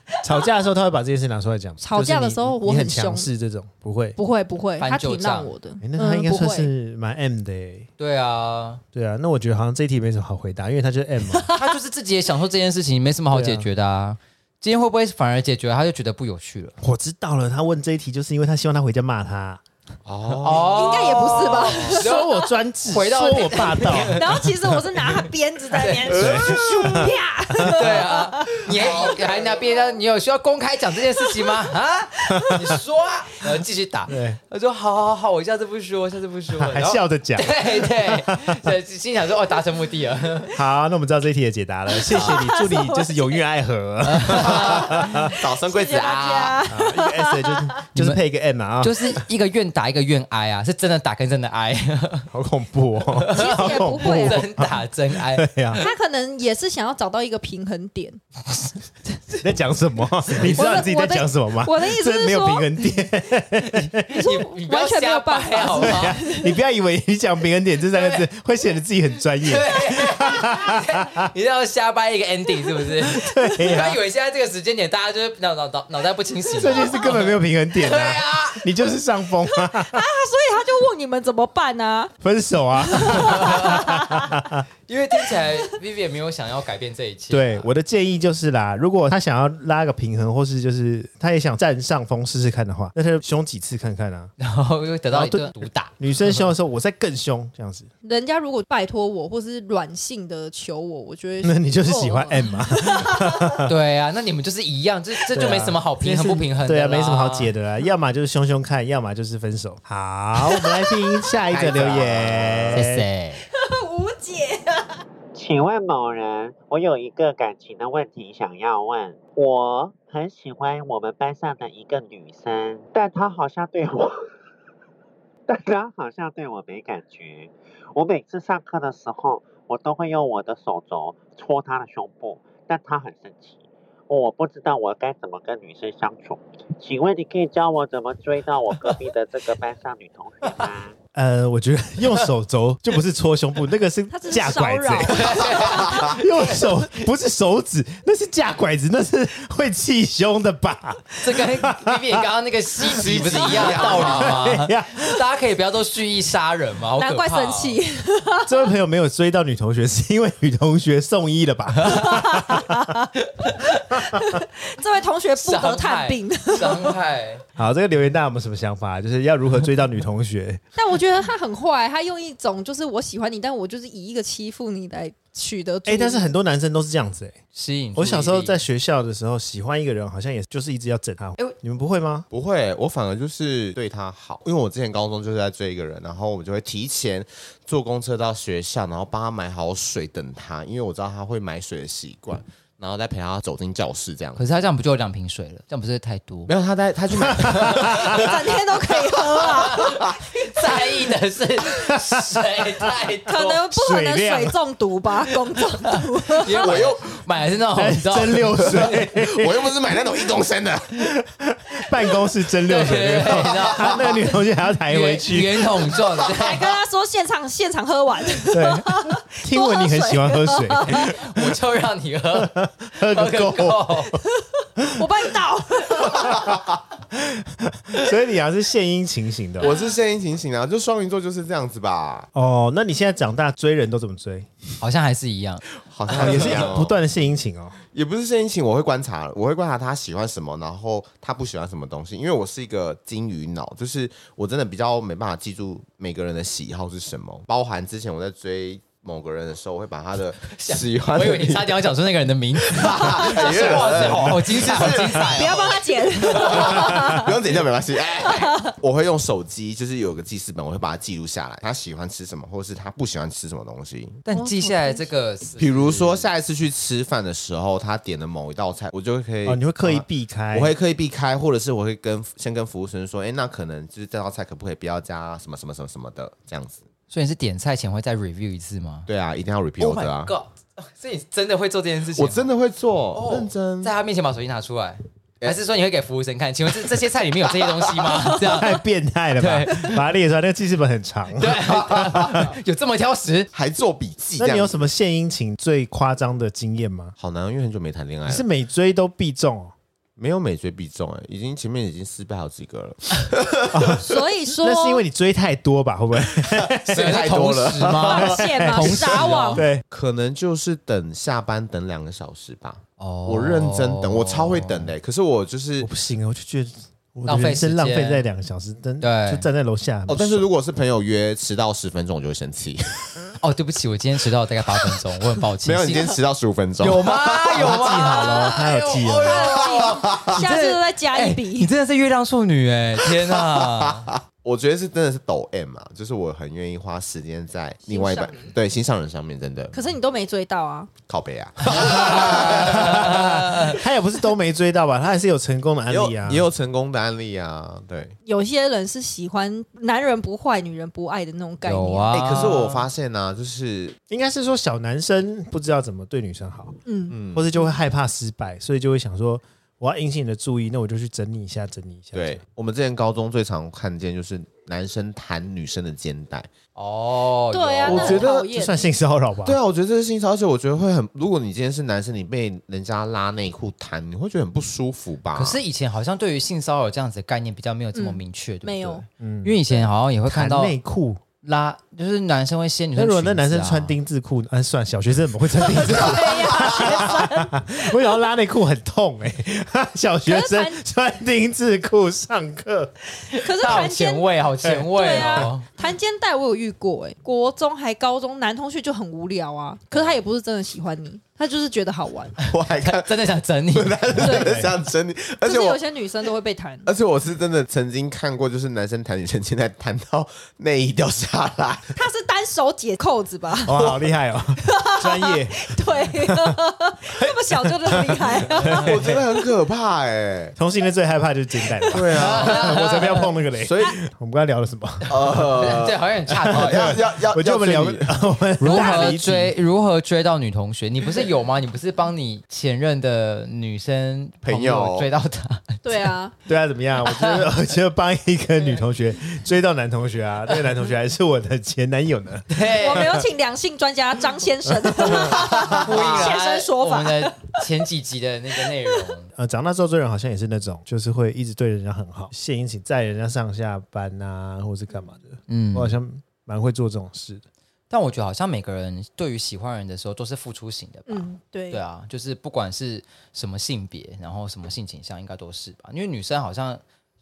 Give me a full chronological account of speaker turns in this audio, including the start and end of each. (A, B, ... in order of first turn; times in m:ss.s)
0:00.2-0:04.2 A
0:01.8-0:03.3 B
0:04.2-0:06.7 B
0:04.8-0:05.5 C
0:05.8-0:07.9 A
0:08.0-0:08.8 C
0:08.9-0:11.5 A
0:11.5-0:16.8 C
0:13.3-0:13.7 A
0:16.8-0:19.6 A
0:20.0-0:21.2 D
0:20.4-0:24.4 C
0:20.7-0:22.2 B
0:21.8-0:24.5 A
0:24.1-0:28.6 B
0:25.7-0:26.4 C
0:26.1-0:27.7 A
0:27.6-0:40.5 C
0:28.7-0:29.5 D
0:32.4-0:32.6 A
0:34.1-0:34.4 A
0:36.5-0:38.7 A
0:40.5-0:45.3 A
0:42.0-0:43.3 B
0:42.1-0:42.4 C
0:44.0-0:44.9 C
0:44.4-0:46.6 D
0:45.2-0:47.8 B
0:46.7-0:49.2 A
0:47.9-0:48.2 C
0:48.8-0:52.3 C
0:52.3-0:55.8 A
0:53.1-0:55.8 C
0:53.3-0:54.4 B
0:55.8-0:58.2 B
0:59.4-1:04.1 A
1:00.5-1:03.0 B
1:04.1-1:06.2 C
1:04.1-1:06.5 B
1:05.8-1:11.3 A
1:07.9-1:08.3 C
1:09.4-1:18.6 C
1:13.0-1:14.0 A
1:16.6-1:20.0 A
1:19.6-1:22.1 B
1:22.2-1:24.6 A
1:22.9-1:24.3 B
1:23.4-1:23.8 C
1:24.9-1:27.6 C
1:27.3-1:34.3 A
1:34.4-1:36.5 C
1:35.1-1:37.9 A
1:38.0-1:43.6 B
1:41.4-1:43.7 A
1:43.6-1:47.5 C
1:45.3-1:53.0 A
1:50.5-1:51.2 B
1:51.5-1:52.8 D
1:52.7-1:53.4 C
1:53.5-1:55.0 B
1:55.3-2:04.3 E
2:05.5-2:21.0 E
2:21.1-2:32.2 A
2:24.1-2:26.0 B
2:25.2-2:26.2 C
2:25.3-2:26.2 D
2:31.2-2:37.8 C
2:32.8-2:34.4 D
2:33.6-2:34.0 B
2:34.0-2:35.2 A
2:37.0-2:38.6 B
2:38.5-2:42.8 A
2:41.9-2:43.1 B
2:43.4-2:43.8 C
2:44.0-2:46.9 B
2:45.4-2:47.4 C
2:47.6-2:50.6 A
2:50.8-2:56.3 B
2:55.8-2:57.4 A
2:57.5-2:58.6 C
2:57.9-3:02.3 A
3:02.3-3:14.4 D
3:14.4-3:16.5 C
3:16.5-3:19.1 D
3:17.3-3:18.1 A
3:17.6-3:17.9 C
3:18.0-3:20.0 B
3:19.6-3:20.2 D
3:20.4-3:23.6 C
3:21.8-3:22.9 A
3:23.3-3:26.8 B
3:23.7-3:24.6 A
3:26.4-3:29.0 C
3:26.5-3:27.2 D
3:27.7-3:29.7 A
3:28.6-3:31.1 D
3:31.0-3:35.9 A
3:32.6-3:34.2 C
3:33.6-3:34.0 D
3:34.9-3:36.7 C
3:36.3-3:41.1 B
3:38.5-3:41.6 A
3:40.9-3:44.1 C
3:42.3-3:44.1 A
3:44.9-3:46.4 B
3:46.1-3:46.6 D
3:46.2-3:46.5 A
3:47.1-3:49.7 A
3:49.6-3:52.3 D
3:52.3-3:54.5 A
3:54.8-3:55.7 C
3:55.9-3:57.0 D
3:56.1-3:57.8 A
3:57.9-4:11.9 D
4:10.5-4:16.9 C
4:12.6-4:15.5 D
4:13.6-4:15.0 A
4:15.3-4:17.3 B
4:16.3-4:24.2 D
4:18.3-4:18.7 B
4:24.2-4:26.3 C
4:24.3-4:25.0 B
4:25.6-4:36.8 D
4:29.4-4:30.7 A
4:37.1-4:39.1 C
4:39.1-4:40.3 D
4:39.8-4:42.5 C
4:42.1-4:43.9 D
4:43.1-4:48.8 C
4:47.6-4:48.1 D
4:48.4-4:52.4 A
4:49.4-4:50.0 C
4:51.4-4:53.5 C
4:51.7-4:52.4 D
4:53.5-4:54.8 D
4:54.4-4:57.1 A
4:57.2-4:58.4 D
4:58.2-4:59.7 A
5:00.2-5:04.0 D
5:03.7-5:04.0 A
5:04.0-5:05.0 B
5:04.6-5:07.2 A
5:06.4-5:09.4 D
5:06.9-5:09.6 C
5:08.0-5:09.6 B
5:08.2-5:09.8 A
5:09.9-5:15.9 D
5:13.0-5:14.9 C
5:15.8-5:20.5 A
5:17.2-5:18.2 C
5:19.0-5:19.5 C
5:20.1-5:23.3 D
5:23.4-5:26.2 C
5:25.6-5:28.2 D
5:26.8-5:34.1 C
5:27.5-5:29.5 A
5:29.2-5:31.7 B
5:29.4-5:30.4 D
5:33.0-5:39.8 D
5:37.9-5:38.5 B
5:39.7-5:40.9 B
5:41.1-5:43.7 D
5:41.7-5:46.5 A
5:41.9-5:43.7 C
5:45.9-5:48.2 D
5:48.2-5:52.1 B
5:51.6-5:52.9 C
5:52.1-5:54.0 D
5:54.1-5:56.8 A
5:56.8-5:57.2 B
5:57.1-5:57.4 D
5:57.3-6:02.4 A
6:02.1-6:06.5 D
6:06.8-6:08.3 C
6:07.5-6:08.9 B
6:07.8-6:08.5 D
6:07.9-6:09.6 A
6:09.4-6:15.6 D
6:15.3-6:20.8 C
6:17.9-6:19.0 B
6:19.2-6:21.2 A
6:21.4-6:24.0 C
6:22.9-6:32.9 A
6:25.6-6:28.0 B
6:30.2-6:30.8 B
6:33.3-6:34.3 B
6:33.3-6:35.6 C
6:34.6-6:35.5 A
6:34.9-6:42.4 B
6:42.5-6:43.2 D
6:42.7-6:44.5 C
6:43.7-6:45.8 D
6:44.2-6:44.5 B
6:44.2-6:44.7 A
6:45.4-6:46.9 B
6:46.8-6:51.9 D
6:51.9-6:54.0 B
6:53.6-6:56.6 A
6:54.6-6:58.9 B
6:57.8-6:59.2 A
6:58.6-7:00.6 D
7:00.6-7:05.4 A
7:01.9-7:03.0 D
7:02.1-7:03.2 C
7:03.6-7:03.9 D
7:05.1-7:08.2 D
7:05.4-7:07.0 C
7:06.4-7:09.5 A
7:08.6-7:16.1 C
7:14.4-7:15.1 D
7:15.8-7:16.3 B
7:16.4-7:23.1 A
7:17.0-7:17.5 C
7:22.5-7:23.2 C
7:22.8-7:27.6 B
7:24.8-7:25.3 A
7:25.2-7:29.3 C
7:29.4-7:37.4 A
7:35.5-7:35.9 C
7:37.9-7:46.8 C
7:41.1-7:41.8 B